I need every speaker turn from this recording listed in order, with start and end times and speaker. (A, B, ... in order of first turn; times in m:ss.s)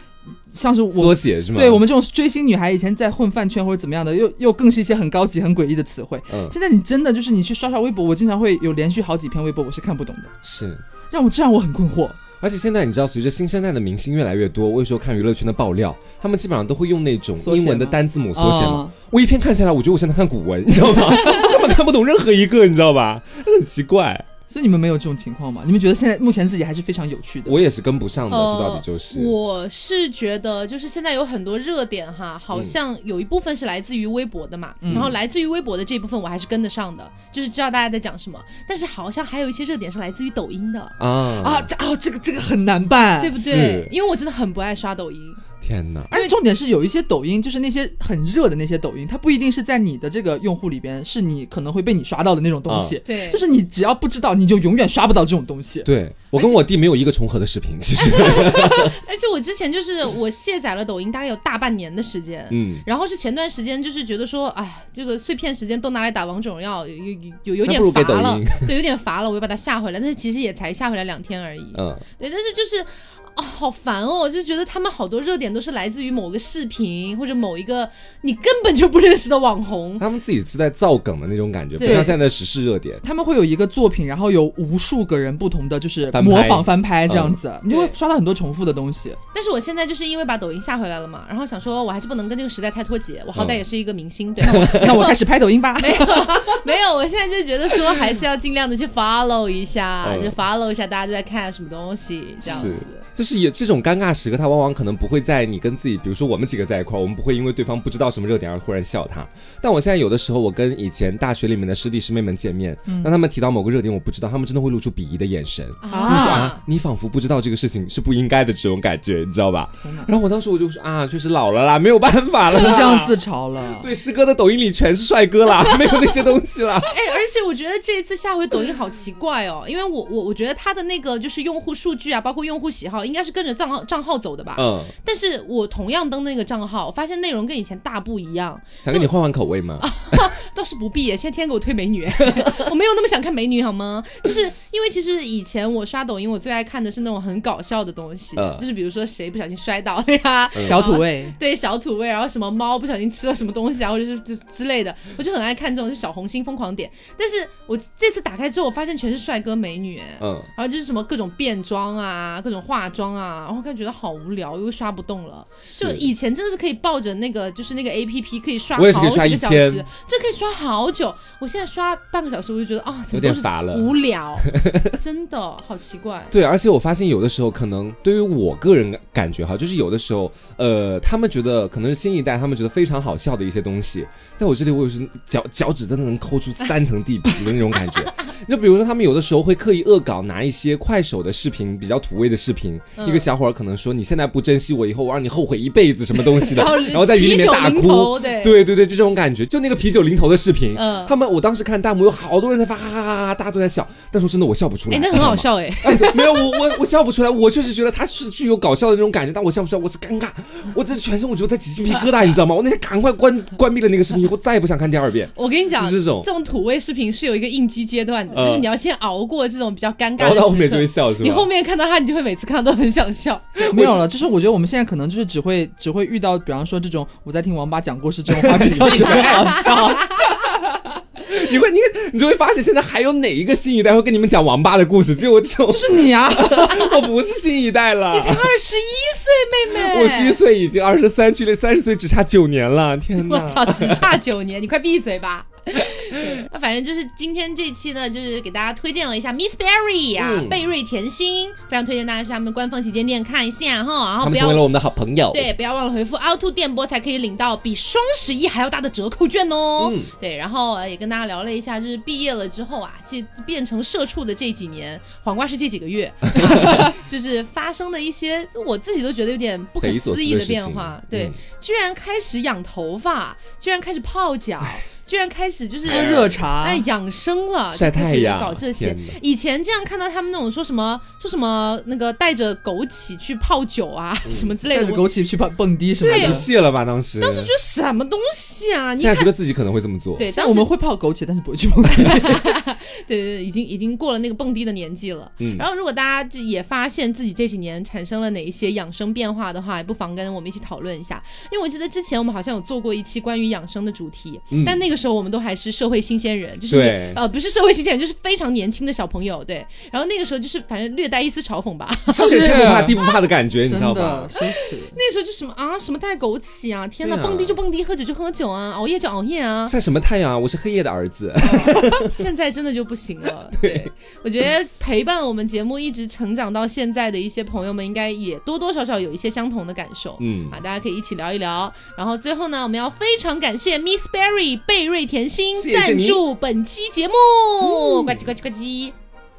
0:00.5-0:10.3 A
0:00.9-0:01.8 B
0:06.3-0:06.6 B
0:10.4-0:10.8 B
0:11.1-0:12.2 A
0:12.4-0:24.3 B
0:17.4-0:18.9 A
0:24.5-0:27.6 A
0:27.5-0:29.3 B
0:28.3-0:41.0 C
0:34.8-0:35.1 A
0:41.0-0:41.7 B
0:41.4-0:43.4 A
0:43.2-0:45.4 C
0:43.4-0:43.9 B
0:45.6-0:46.1 B
0:46.1-0:46.4 C
0:46.1-0:55.9 A
0:52.7-0:53.0 B
0:53.0-0:53.4 C
0:55.8-0:59.0 B
0:56.3-0:56.6 C
0:58.0-1:20.1 C
1:02.5-1:02.8 B
1:07.6-1:08.7 B
1:11.8-1:12.0 B
1:20.0-1:23.0 B
1:21.8-1:22.1 C
1:21.8-1:22.2 A
1:23.0-1:29.2 A
1:26.1-1:27.4 B
1:27.7-1:28.0 C
1:29.3-1:35.2 C
1:33.3-1:33.6 B
1:34.4-1:35.1 B
1:34.6-1:36.6 A
1:35.8-1:43.0 C
1:40.0-1:40.4 B
1:42.4-2:03.2 B
1:52.9-1:53.1 A
1:55.8-1:56.6 C
1:55.9-1:56.5 A
1:59.8-2:00.1 A
2:02.5-2:03.9 A
2:03.8-2:06.9 B
2:06.8-2:19.1 C
2:14.6-2:14.9 B
2:18.8-2:20.2 B
2:19.8-2:56.3 C
2:28.4-2:28.6 B
2:30.6-2:31.4 A
2:40.2-2:40.5 B
2:45.8-2:46.1 B
2:48.8-2:49.9 B
2:53.1-2:55.0 B
2:56.3-3:36.3 B
3:13.0-3:13.3 C
3:16.4-3:18.6 C
3:20.7-3:21.2 C
3:24.9-3:26.7 C
3:35.4-3:43.9 C
3:38.3-3:38.7 B
3:40.2-3:41.5 B
3:43.7-3:50.6 A
3:43.7-3:44.0 B
3:48.3-3:49.7 B
3:48.9-3:50.4 C
3:51.2-3:58.6 B
3:55.7-3:57.0 A
3:58.1-4:00.4 C
3:59.7-4:04.2 B
4:03.2-4:14.7 C
4:10.2-4:10.7 B
4:14.2-4:15.5 B
4:15.3-4:45.0 C
4:19.8-4:20.1 B
4:26.4-4:26.8 B
4:29.8-4:31.4 B
4:35.9-4:36.4 B
4:35.9-4:36.9 A
4:37.7-4:39.2 B
4:44.3-4:44.5 B
4:44.7-4:46.5 A
4:46.0-4:46.5 C
4:46.0-4:47.5 B
4:47.2-4:49.3 C
4:49.0-4:50.3 B
4:50.2-4:50.7 C
4:50.3-4:52.6 A
4:52.0-5:12.6 C
4:55.4-4:55.6 B
5:04.5-5:04.8 B
5:06.7-5:07.2 B
5:12.1-5:13.1 A
5:12.2-5:14.4 B
5:13.6-5:15.0 A
5:14.9-5:19.8 C
5:17.0-5:17.6 B
5:19.7-5:22.1 B
5:21.6-5:39.0 C
5:23.6-5:23.9 B
5:30.2-5:30.6 B
5:35.6-5:36.2 B